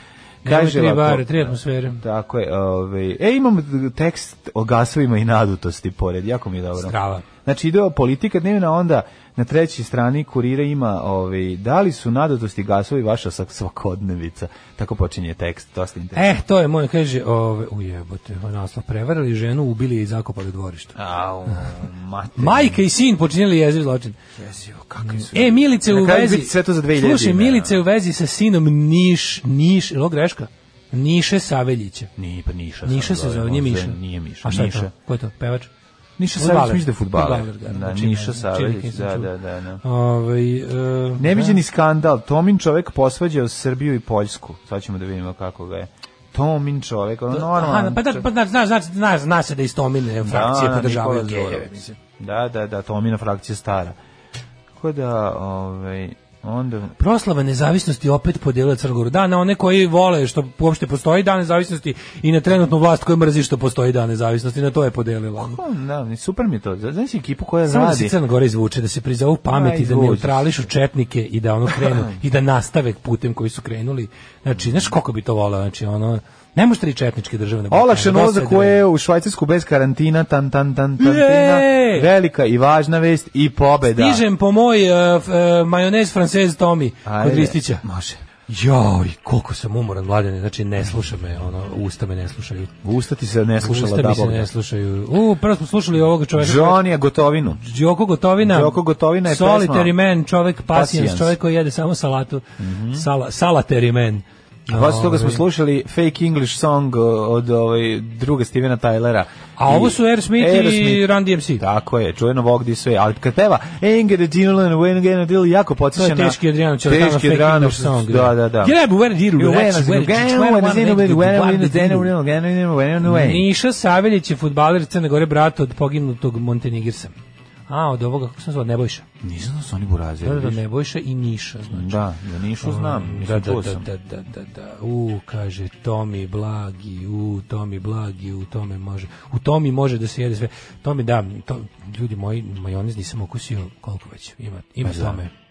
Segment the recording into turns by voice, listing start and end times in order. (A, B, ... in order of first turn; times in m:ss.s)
0:00.4-0:16.4 A
0:00.4-0:02.0 B
0:06.8-0:07.2 B
0:16.2-0:21.0 B
0:21.0-0:22.8 A
0:22.4-0:24.2 B
0:24.4-0:27.8 A
0:25.0-0:32.1 B
0:32.2-0:34.9 A
0:32.8-0:35.7 B
0:36.2-0:39.8 A
0:36.4-0:39.3 B
0:39.8-0:41.6 B
0:41.2-0:48.3 A
0:47.3-0:52.0 B
0:50.2-0:54.0 A
0:54.8-0:56.9 A
0:57.0-1:05.6 B
1:05.4-1:08.2 A
1:07.7-1:18.8 B
1:09.5-1:10.6 A
1:11.7-1:12.1 A
1:14.6-1:14.8 A
1:17.7-1:24.2 A
1:21.0-1:22.1 B
1:23.9-1:27.8 B
1:27.0-1:28.2 A
1:28.5-1:32.7 B
1:32.8-1:34.5 A
1:33.6-1:36.8 B
1:36.4-1:37.6 A
1:37.6-1:45.4 B
1:38.4-1:40.0 A
1:40.7-1:41.4 A
1:42.6-1:43.1 A
1:44.7-1:58.8 A
1:49.6-1:51.6 B
1:56.0-2:02.1 B
1:59.4-2:03.5 A
2:03.0-2:07.1 B
2:07.7-2:09.1 B
2:09.2-2:10.6 A
2:10.2-2:12.0 B
2:11.7-2:13.9 A
2:12.6-2:25.3 B
2:24.8-2:25.2 A